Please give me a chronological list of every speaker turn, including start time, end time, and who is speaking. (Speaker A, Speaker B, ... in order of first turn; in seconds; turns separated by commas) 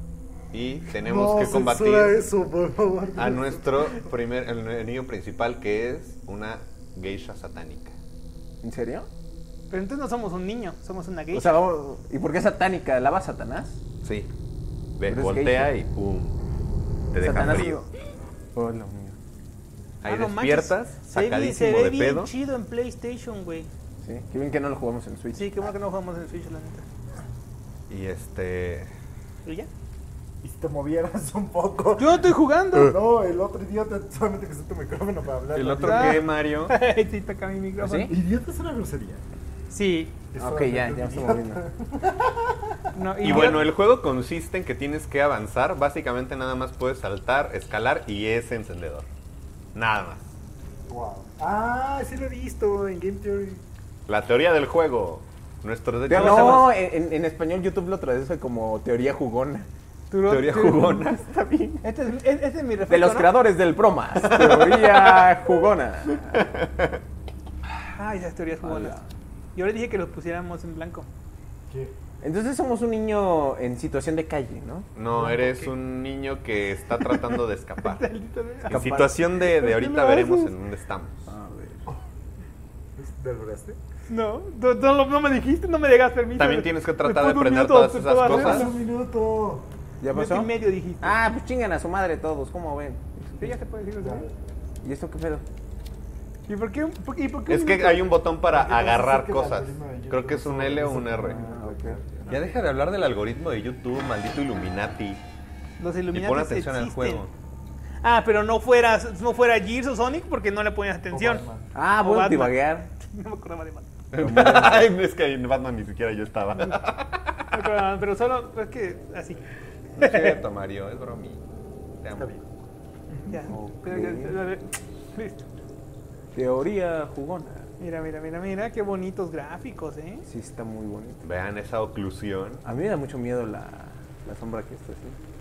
Speaker A: 0.5-2.2, Speaker B: 1.0-4.0, Speaker A: 3.1-8.0, Speaker C: 8.6-9.1, Speaker D: 9.7-11.6, Speaker C: 11.3-13.8, Speaker A: 14.0-14.3, Speaker A: 15.0-16.4, Speaker C: 15.0-15.8, Speaker A: 17.1-17.8, Speaker C: 17.2-17.9, Speaker C: 18.6-19.2, Speaker A: 20.0-22.3, Speaker D: 20.0-23.7, Speaker C: 24.0-25.6, Speaker D: 25.3-26.9, Speaker A: 27.9-28.9, Speaker D: 29.4-29.7, Speaker B: 30.4-32.3, Speaker D: 32.0-33.0, Speaker B: 32.8-36.3, Speaker A: 35.5-36.7, Speaker D: 35.8-38.1, Speaker C: 37.8-38.1, Speaker B: 38.0-39.2, Speaker D: 39.7-40.3, Speaker B: 40.3-43.6, Speaker C: 40.3-41.6, Speaker D: 43.0-43.7, Speaker A: 43.2-49.0, Speaker A: 49.8-50.2, Speaker B: 50.9-53.6, Speaker A: 54.1-56.7, Speaker C: 56.1-59.7, Speaker D: 56.3-56.7, Speaker D: 60.1-60.9, Speaker A: 60.3-61.2, Speaker C: 60.6-61.9, Speaker D: 61.8-63.5, Speaker C: 62.9-66.4, Speaker A: 64.2-65.5, Speaker A: 66.1-67.0, Speaker D: 67.9-69.0, Speaker C: 68.6-69.0, Speaker D: 69.5-71.1, Speaker B: 71.7-71.9, Speaker C: 72.2-74.9, Speaker A: 75.0-78.0, Speaker B: 75.1-75.8, Speaker D: 77.8-80.5, Speaker A: 78.7-81.2, Speaker C: 78.7-79.2, Speaker C: 81.3-81.8, Speaker B: 83.0-83.8, Speaker D: 84.1-88.8, Speaker A: 86.4-88.7, Speaker B: 88.3-89.7, Speaker C: 90.0-93.5, Speaker D: 90.1-91.2, Speaker D: 93.4-94.3, Speaker B: 94.0-94.3, Speaker C: 94.8-95.4, Speaker D: 96.5-98.1, Speaker A: 97.5-101.5, Speaker B: 98.5-102.3, Speaker C: 101.0-102.0, Speaker A: 102.3-105.2, Speaker D: 105.8-107.2, Speaker A: 106.1-107.3, Speaker D: 108.0-111.5, Speaker B: 111.1-111.7, Speaker C: 111.7-112.9, Speaker D: 112.0-113.9, Speaker A: 114.1-117.5, Speaker C: 114.2-114.9, Speaker D: 117.5-119.4, Speaker D: 119.9-120.4, Speaker A: 120.0-121.4, Speaker A: 122.0-122.3, Speaker B: 122.2-122.4, Speaker D: 123.3-125.4, Speaker C: 123.5-124.4, Speaker C: 126.3-127.7, Speaker D: 127.8-130.2, Speaker C: 130.3-131.2, Speaker A: 131.2-132.6, Speaker C: 132.6-135.2